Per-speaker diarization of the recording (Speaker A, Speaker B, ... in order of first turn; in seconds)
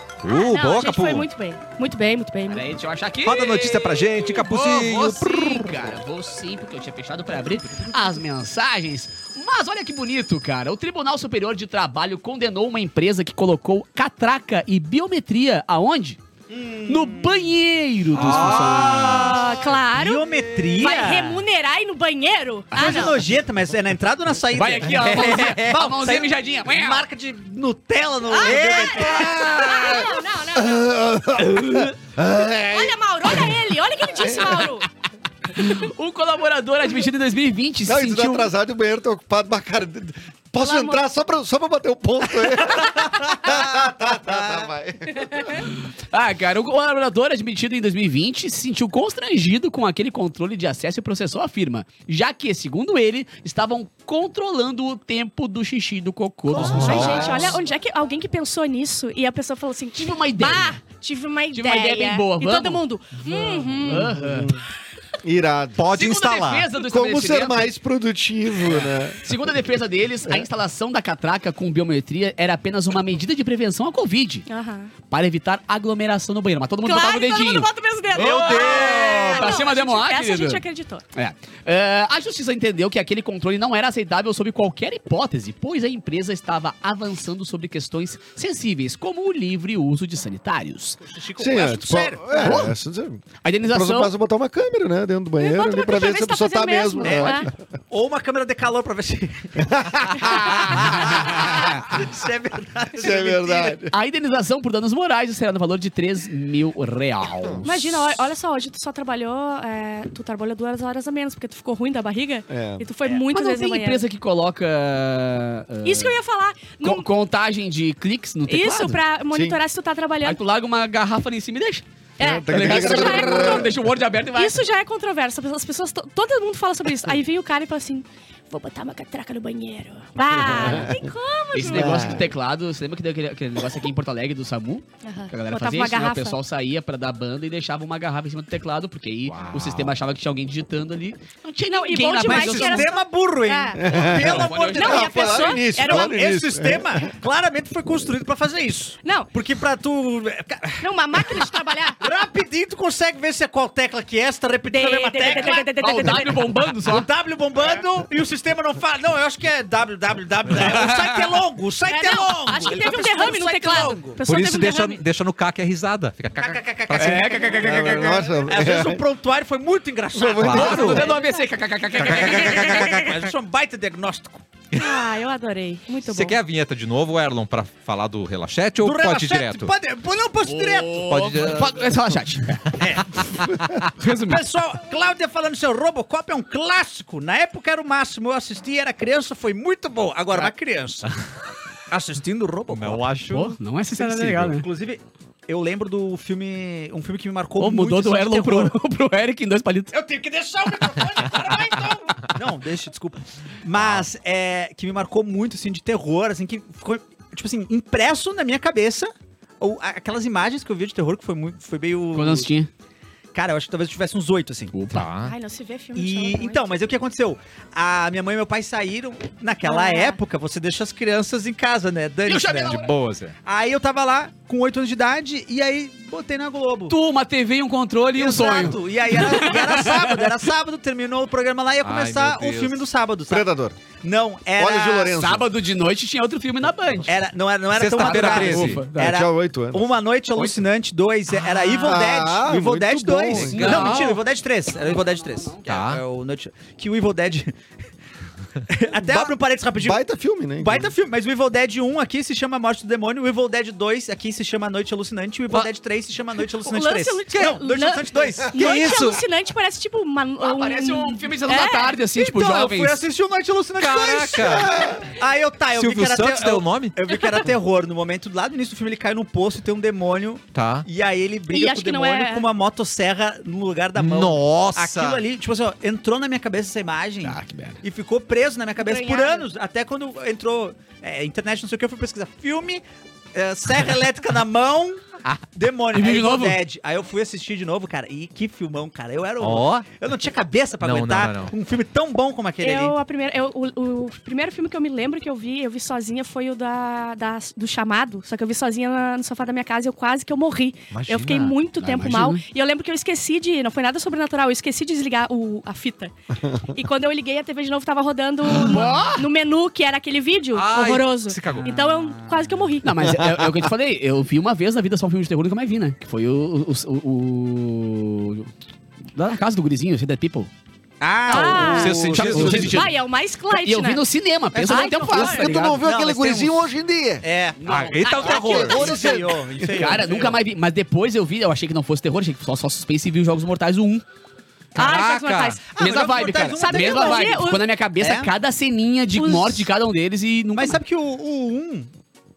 Speaker A: 0.2-1.3, 3.2-5.9, 18.1-19.6, 56.5-57.6, 65.8-66.7, 139.3-139.9, 164.3-167.5, 170.4-171.0, 172.0-173.1, 174.7-175.0, 176.1-179.7, 181.0-181.8, 182.8-183.8, 192.7-193.6, 203.8-204.1, 214.9-215.3, 222.7-223.4, 231.8-232.8, 237.7-238.9, 245.6-246.0, 258.6-259.1, 263.8-264.8, 265.7-267.0, 270.5-270.9, 274.0-275.2, 289.4-289.9, 290.8-291.5, 300.9-302.2, 310.5-311.9, 321.6-322.8, 327.7-328.9, 334.8-335.6
Speaker B: 0.3-2.7, 18.8-20.2, 20.8-23.2, 28.3-31.0, 32.4-34.9, 40.6-41.0, 42.6-42.9, 56.5-64.1, 74.5-74.9, 76.8-81.0, 95.4-97.5, 107.7-114.0, 115.8-117.1, 118.5-120.4, 122.2-123.7, 124.3-132.2, 135.0-136.4, 141.7-143.9, 144.7-146.2, 149.0-149.3, 150.8-152.0, 154.7-156.4, 161.9-165.0, 170.9-171.4, 174.8-176.4, 215.2-216.8, 219.7-220.2, 256.6-262.0, 271.5-272.5, 278.8-279.5, 292.6-313.1, 321.3-324.1, 324.6-325.4, 334.8-335.6, 336.5-337.6, 339.1-339.7
Speaker C: 2.5-16.2, 16.9-19.4, 22.8-23.1, 24.5-27.1, 29.2-29.9, 35.5-38.5, 45.5-57.6, 60.0-60.8, 61.5-62.8, 63.7-64.6, 65.9-67.7, 69.1-74.5, 75.1-80.6, 81.1-91.0, 92.3-92.8, 93.4-94.1, 103.9-108.0, 113.1-116.2, 116.8-119.0, 120.2-121.8, 122.5-124.6, 130.5-130.9, 131.5-142.9, 144.1-145.2, 155.4-157.1, 160.7-161.1, 166.9-168.3, 170.5-172.9, 180.4-182.7, 183.9-184.4, 193.3-194.7, 197.6-199.9, 212.1-212.7, 214.7-215.1, 222.3-222.9, 226.9-230.3, 235.1-237.2, 237.9-239.2, 240.4-240.6, 243.5-244.2, 244.8-245.7, 260.4-263.0, 277.2-277.8, 285.9-286.6, 302.0-302.4, 308.5-309.3, 312.8-318.5, 319.1-320.5, 321.4-322.9, 323.5-325.8, 327.6-328.8, 329.7-334.0, 335.8-340.8
Speaker D: 16.5-17.5, 18.2-19.2, 19.9-21.4, 22.7-29.6, 43.5-44.6, 78.2-79.6, 91.0-92.5, 97.0-97.4, 97.9-103.8, 142.2-156.3, 156.8-164.2, 166.4-171.1, 172.0-174.4, 178.8-181.1, 182.8-183.2, 184.2-191.1, 191.9-193.1, 194.0-198.8, 199.9-212.5, 213.3-214.8, 215.9-222.8, 223.4-227.0, 228.1-235.2, 237.1-247.6, 248.7-250.0, 250.6-259.2, 262.1-293.0, 321.0-322.8, 324.6-326.7, 327.2-330.4, 335.6-338.3, 340.5-341.9
Speaker E: 29.7-33.5, 34.2-34.7, 37.9-45.5, 63.9-64.6, 65.2-65.8, 66.8-69.5, 91.4-97.5, 99.6-100.1, 102.9-103.9, 112.5-112.9, 119.3-119.6, 122.2-123.8, 130.3-131.1, 131.6-132.3, 143.8-147.1, 167.6-169.0, 170.1-171.1, 233.3-233.8, 234.6-235.5, 238.9-239.9, 241.8-243.9, 249.7-250.9, 264.5-265.1, 322.4-322.8, 325.2-327.2, 328.3-329.5